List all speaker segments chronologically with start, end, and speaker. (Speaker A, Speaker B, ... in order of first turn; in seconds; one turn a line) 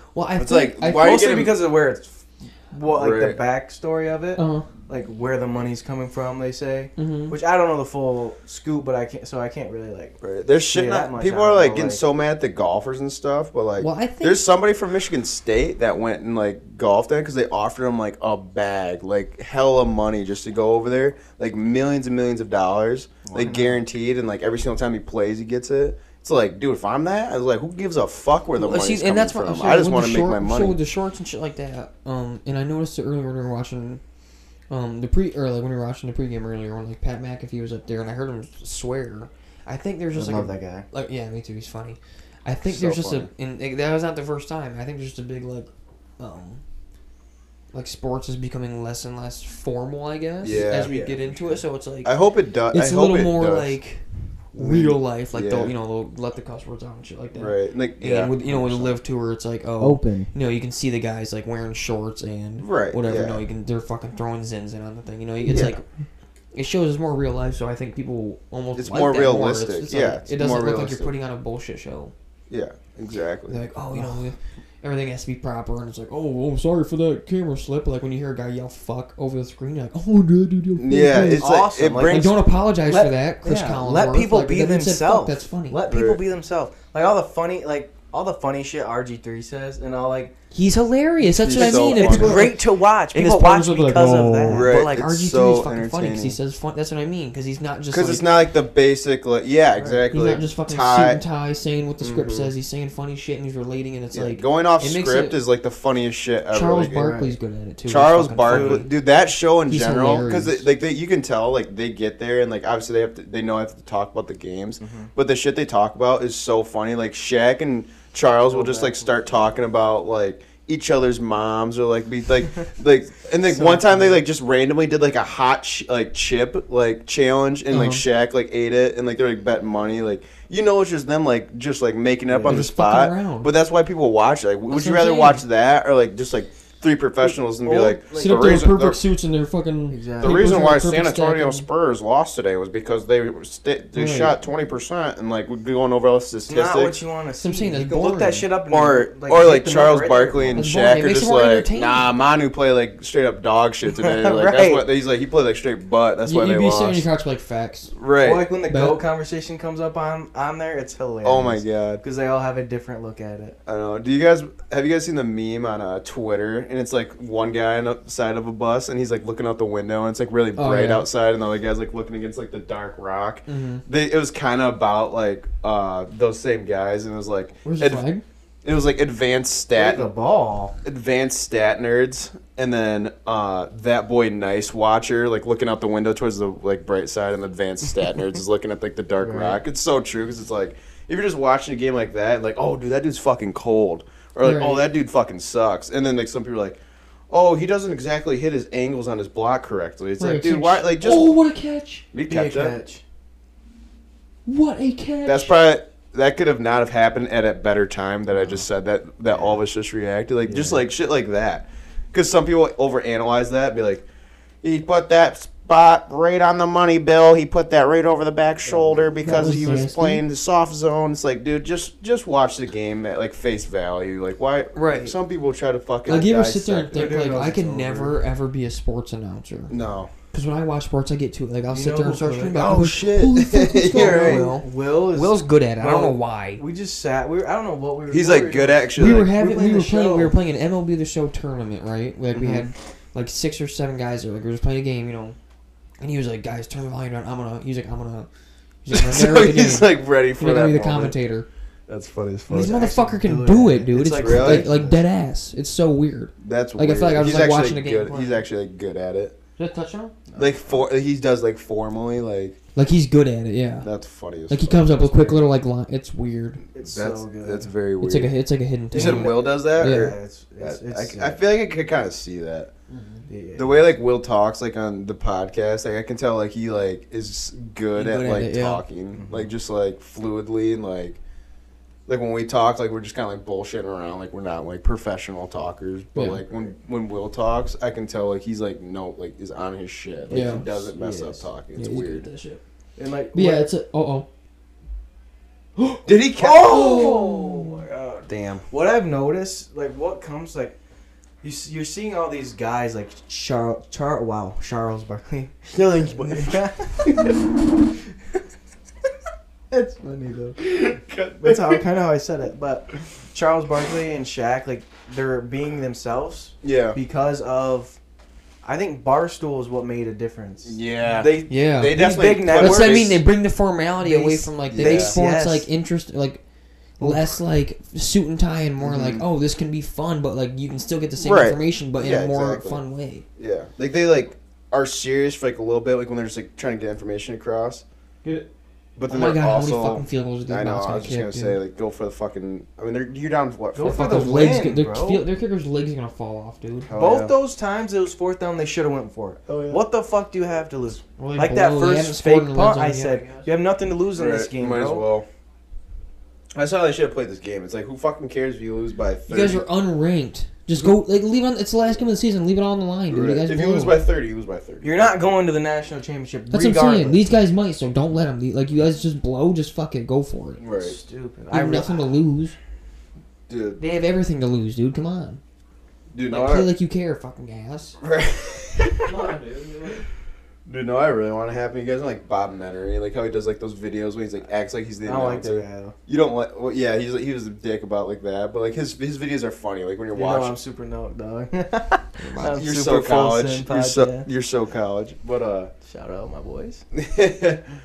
Speaker A: 0.1-1.2
Speaker B: 0.4-1.6
Speaker C: 0.9-10.2
Speaker B: 2.9-3.4
Speaker A: 4.3-4.7
Speaker A: 7.0-7.4
Speaker B: 10.2-30.8
Speaker C: 10.7-12.0
Speaker A: 13.8-14.5
Speaker C: 23.2-23.8
Speaker A: 28.6-34.0
Speaker A: 34.7-46.6
Speaker C: 40.1-40.9
Speaker B: 42.6-43.3
Speaker A: 47.7-52.1
Speaker B: 50.4-51.2
Speaker B: 52.0-53.8
Speaker A: 52.7-54.0
Speaker B: 54.5-55.7
Speaker A: 54.5-65.8
Speaker B: 57.3-59.0
Speaker C: 59.8-60.3
Speaker B: 62.6-63.4
Speaker B: 65.5-65.8
Speaker A: 66.5-72.1
Speaker B: 68.7-71.1
Speaker B: 72.5-73.6
Speaker A: 73.5-85.8
Speaker B: 80.8-82.3
Speaker C: 81.3-90.3
Speaker B: 85.9-86.2
Speaker A: 90.5-98.3
Speaker B: 91.4-92.5
Speaker C: 91.5-94.7
Speaker B: 94.5-96.4
Speaker B: 97.9-101.2
Speaker C: 99.8-100.0
Speaker A: 100.1-105.4
Speaker B: 102.0-102.5
Speaker B: 104.1-107.0
Speaker A: 106.5-108.9
Speaker C: 106.9-107.3
Speaker B: 107.8-139.0
Speaker C: 108.4-108.8
Speaker A: 109.7-110.7
Speaker C: 114.8-115.1
Speaker C: 118.5-119.2
Speaker A: 127.7-128.0
Speaker C: 132.3-132.7
Speaker A: 132.4-133.5
Speaker A: 134.7-135.4
Speaker C: 137.2-138.6
Speaker A: 138.1-141.7
Speaker C: 139.9-140.6
Speaker B: 140.2-147.0
Speaker A: 143.9-144.3
Speaker C: 146.5-150.7
Speaker A: 147.4-148.5
Speaker B: 148.7-157.1
Speaker A: 150.5-152.1
Speaker C: 153.9-154.8
Speaker A: 156.2-157.9
Speaker B: 157.9-158.4
Speaker C: 158.2-163.6
Speaker A: 158.7-159.0
Speaker B: 161.2-162.0
Speaker B: 163.7-178.1
Speaker A: 170.5-171.1
Speaker A: 173.4-173.8
Speaker A: 177.6-178.2
Speaker B: 178.6-180.1
Speaker C: 179.7-180.7
Speaker B: 180.8-196.8
Speaker C: 189.2-189.6
Speaker A: 194.4-194.8
Speaker B: 197.3-201.3
Speaker A: 200.2-202.1
Speaker B: 202.1-202.8
Speaker C: 202.2-203.0
Speaker A: 204.4-205.6
Speaker B: 205.2-214.0
Speaker C: 210.4-210.8
Speaker B: 214.6-227.1
Speaker C: 218.6-219.9
Speaker A: 219.2-220.2
Speaker A: 224.7-225.2
Speaker A: 226.1-229.8
Speaker C: 226.9-228.2
Speaker B: 229.7-230.1
Speaker A: 230.3-236.6
Speaker C: 231.7-232.6
Speaker B: 232.5-234.5
Speaker C: 233.8-240.3
Speaker B: 238.1-239.3
Speaker A: 239.0-245.3
Speaker B: 242.3-242.7
Speaker A: 246.0-248.3
Speaker A: 248.8-251.5
Speaker B: 248.9-251.2
Speaker B: 251.9-252.8
Speaker A: 252.5-258.4
Speaker C: 252.5-255.0
Speaker B: 254.1-254.7
Speaker B: 256.4-259.3
Speaker A: 259.6-260.1
Speaker C: 260.3-260.8
Speaker B: 260.4-262.6
Speaker A: 262.7-263.9
Speaker B: 263.8-265.4
Speaker A: 264.5-266.6
Speaker C: 266.7-267.7
Speaker B: 266.8-268.4
Speaker A: 268.0-270.1
Speaker C: 268.9-271.4
Speaker B: 268.9-272.7
Speaker A: 272.9-273.2
Speaker C: 273.3-273.8
Speaker B: 273.6-281.2
Speaker A: 277.9-278.8
Speaker C: 279.1-279.5
Speaker B: 282.1-292.3
Speaker A: 286.1-286.4
Speaker C: 290.3-291.4
Speaker A: 290.3-290.6
Speaker A: 291.7-292.6
Speaker C: 292.9-293.7
Speaker A: 293.3-294.3
Speaker C: 295.8-297.8
Speaker B: 296.0-298.7
Speaker A: 296.6-297.8
Speaker C: 298.7-300.8
Speaker C: 301.4-307.3
Speaker B: 305.7-307.4
Speaker C: 309.7-310.7
Speaker B: 310.6-311.8
Speaker C: 311.4-318.0
Speaker B: 316.6-317.0
Speaker C: 318.6-323.1
Speaker B: 320.6-323.2
Speaker A: 321.0-326.4
Speaker C: 324.0-325.7
Speaker B: 324.7-325.2
Speaker A: 327.0-333.2
Speaker B: 328.8-329.2
Speaker B: 331.2-332.8
Speaker B: 333.4-337.8
Speaker B: 339.0-344.5
Speaker A: 339.1-341.6
Speaker C: 343.7-345.2
Speaker A: 343.8-346.9
Speaker B: 346.9-347.3
Speaker C: 346.9-355.1
Speaker B: 349.5-349.8
Speaker A: 351.2-353.5
Speaker B: 354.1-355.2
Speaker B: 356.5-359.6
Speaker A: 359.3-364.0
Speaker B: 363.1-365.3
Speaker C: 364.8-367.2
Speaker A: 366.5-370.6
Speaker B: 370.6-370.9
Speaker C: 370.8-372.1
Speaker A: 371.5-372.6
Speaker B: 373.5-373.8
Speaker A: 373.8-375.4
Speaker B: 376.1-376.7
Speaker A: 376.3-378.0
Speaker B: 378.0-379.2
Speaker A: 379.1-380.0
Speaker B: 380.7-390.5
Speaker C: 385.0-385.9
Speaker C: 390.1-394.3
Speaker A: 392.2-392.6
Speaker B: 392.4-395.7
Speaker C: 395.8-396.8
Speaker B: 396.9-397.6